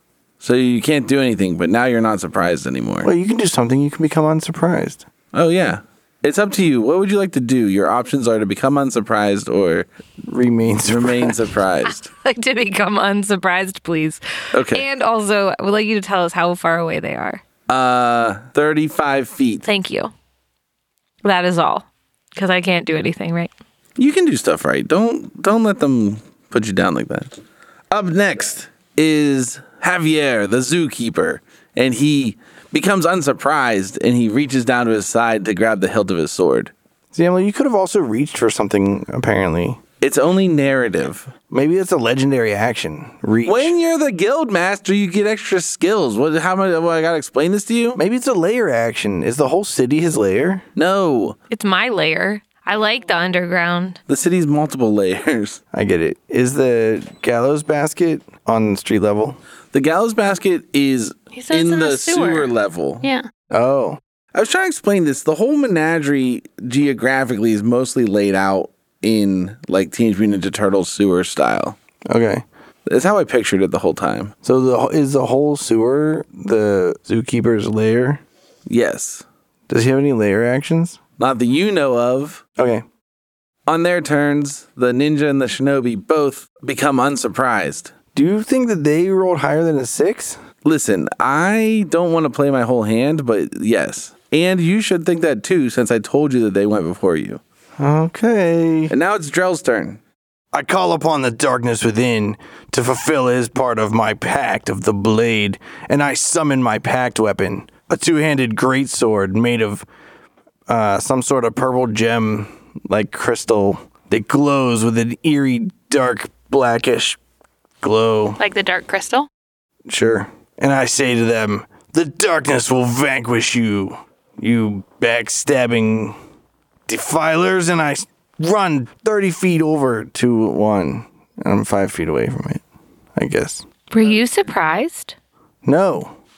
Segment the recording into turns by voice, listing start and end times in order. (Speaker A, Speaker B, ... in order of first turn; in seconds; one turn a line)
Speaker A: 0.4-3.1
Speaker B: 3.0-5.0
Speaker A: 5.3-9.9
Speaker B: 10.2-11.6
Speaker A: 10.9-12.1
Speaker C: 11.9-17.4
Speaker A: 14.5-14.8
Speaker A: 17.7-19.6
Speaker C: 19.6-20.1
Speaker C: 21.2-23.5
Speaker A: 24.0-27.3
Speaker A: 27.9-36.7
Speaker B: 37.1-39.8
Speaker A: 40.0-41.3
Speaker B: 41.5-43.7
Speaker A: 43.5-48.0
Speaker B: 48.0-50.6
Speaker A: 50.8-51.4
Speaker C: 51.5-54.0
Speaker A: 54.1-55.6
Speaker B: 55.7-59.4
Speaker A: 59.7-63.1
Speaker D: 61.3-63.3
Speaker B: 63.5-64.0
Speaker A: 64.3-71.8
Speaker B: 72.1-72.4
Speaker A: 72.9-74.3
Speaker B: 74.4-78.2
Speaker A: 78.7-79.2
Speaker B: 79.7-81.0
Speaker A: 81.2-82.4
Speaker B: 82.6-82.8
Speaker A: 83.7-87.9
Speaker B: 88.1-90.4
Speaker A: 90.7-97.4
Speaker B: 97.8-98.9
Speaker A: 98.9-100.0
Speaker B: 100.5-109.8
Speaker B: 110.7-117.2
Speaker B: 117.8-118.4
Speaker D: 118.4-119.3
Speaker B: 119.9-126.2
Speaker B: 126.9-132.6
Speaker B: 133.2-133.6
Speaker C: 133.9-135.2
Speaker B: 135.6-136.2